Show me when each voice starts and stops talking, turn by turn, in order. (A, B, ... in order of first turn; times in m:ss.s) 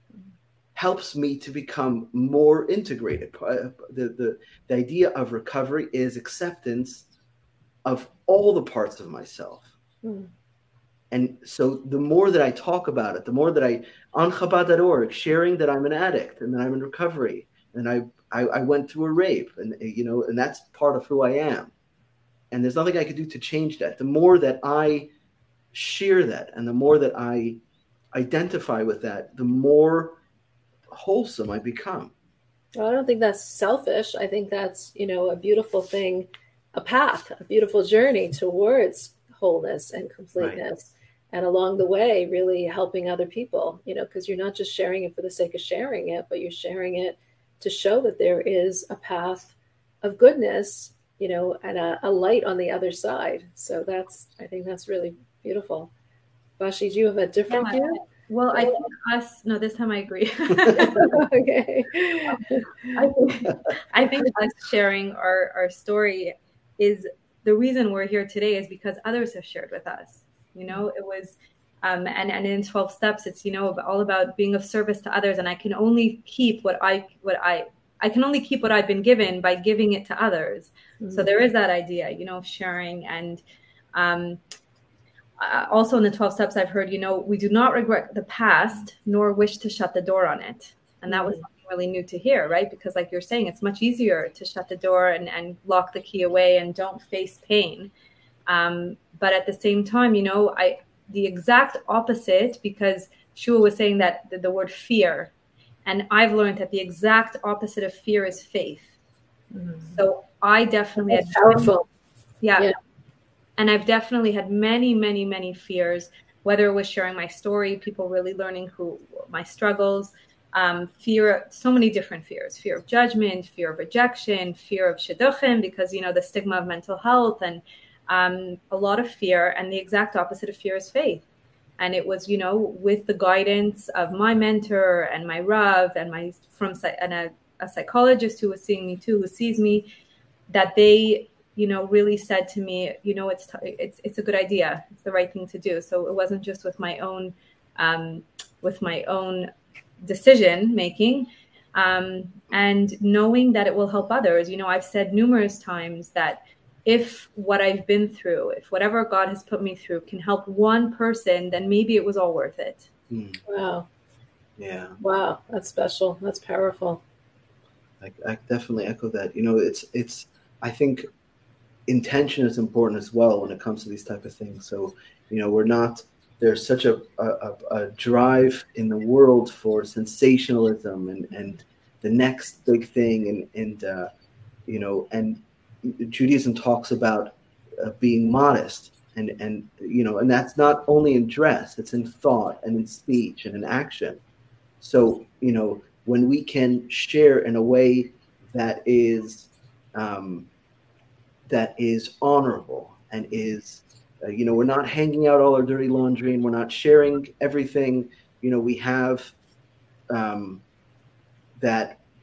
0:00.7-0:07.0 A
0:07.8-0:09.7 A
0:10.0-0:10.3 B
0:11.1-0:21.7 A
0:22.5-0:25.1 A
0:25.7-0:27.6 A
0:28.1-0:30.2 A
0:30.9-0:32.1 A
0:32.8-0:55.9 B
0:56.6-0:58.0 B
0:57.5-1:01.2 C
0:58.5-0:58.8 B
1:00.7-1:03.0 B
1:02.9-1:23.4 C
1:21.0-1:21.3 B
1:23.9-1:24.4 C
1:25.4-1:37.9 C
1:31.1-1:31.4 B
1:38.5-1:45.3 C
1:45.8-1:48.9 C
1:49.5-1:50.0 B
1:50.0-1:51.7 C
1:51.0-1:51.9 B
1:52.4-1:52.7 C
1:53.6-2:11.2 C
2:11.8-2:19.8 C
2:20.5-2:29.5 C
2:30.0-2:42.9 C
2:43.1-2:43.4 A
2:43.4-2:43.9 B
2:44.6-2:45.0 A
2:45.0-2:47.0 B
2:48.0-2:51.0 A
2:51.9-3:04.1 A
3:04.7-3:14.2 A
3:14.8-3:20.5 A
3:21.5-3:29.3 A
3:30.1-3:30.6 A
3:31.6-3:32.0 A